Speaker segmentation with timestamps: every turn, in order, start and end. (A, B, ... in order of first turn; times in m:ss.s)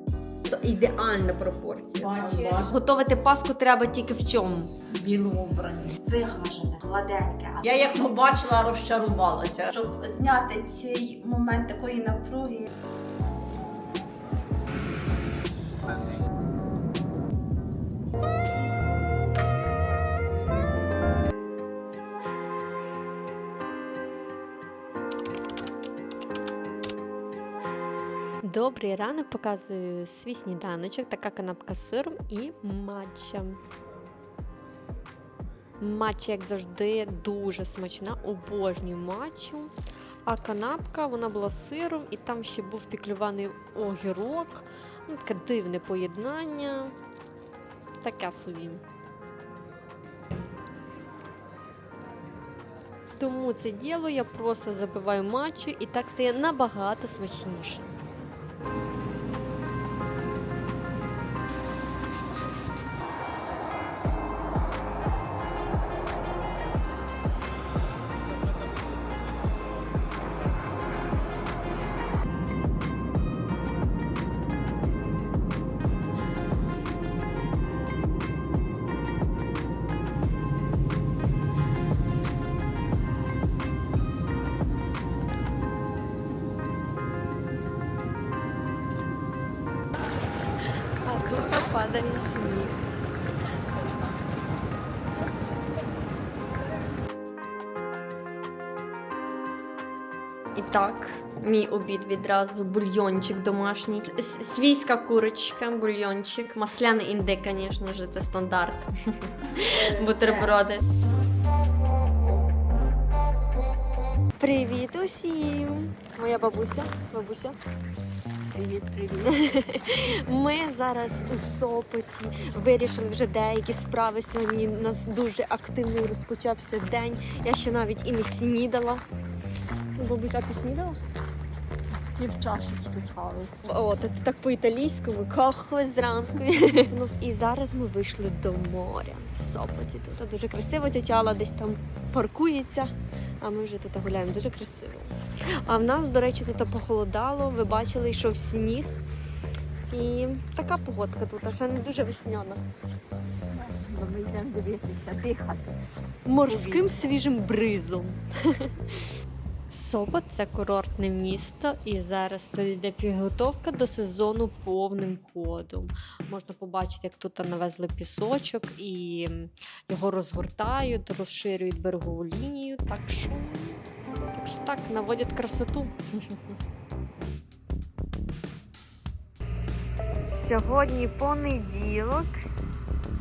0:00.5-0:02.1 A
0:02.0-0:02.7 B
0:02.0-0:02.7 C
0:02.6-0:04.7 A
0:04.9-0:06.0 B
0:06.0-0:08.0 C
0:07.6-0:09.7 B
0:09.7-0:12.7 C
0:28.4-0:33.6 A
0:35.8-0:39.7 A
0:40.3-0:46.9 A
0:48.0-0:48.8 A
0:53.2-0:57.9 A
1:31.0-1:32.8 A
1:40.6-1:50.9 A
1:49.7-1:50.5 C
1:54.4-1:57.6 A
1:58.5-2:09.0 A
2:10.0-2:11.0 A
2:12.0-2:13.5 B
2:13.6-2:29.0 A
2:29.9-2:32.6 A
2:33.5-2:35.7 B
2:36.3-2:39.0 A
2:36.5-2:36.9 B
2:39.7-2:53.8 A
2:54.3-2:56.4 A
3:00.3-3:02.4 A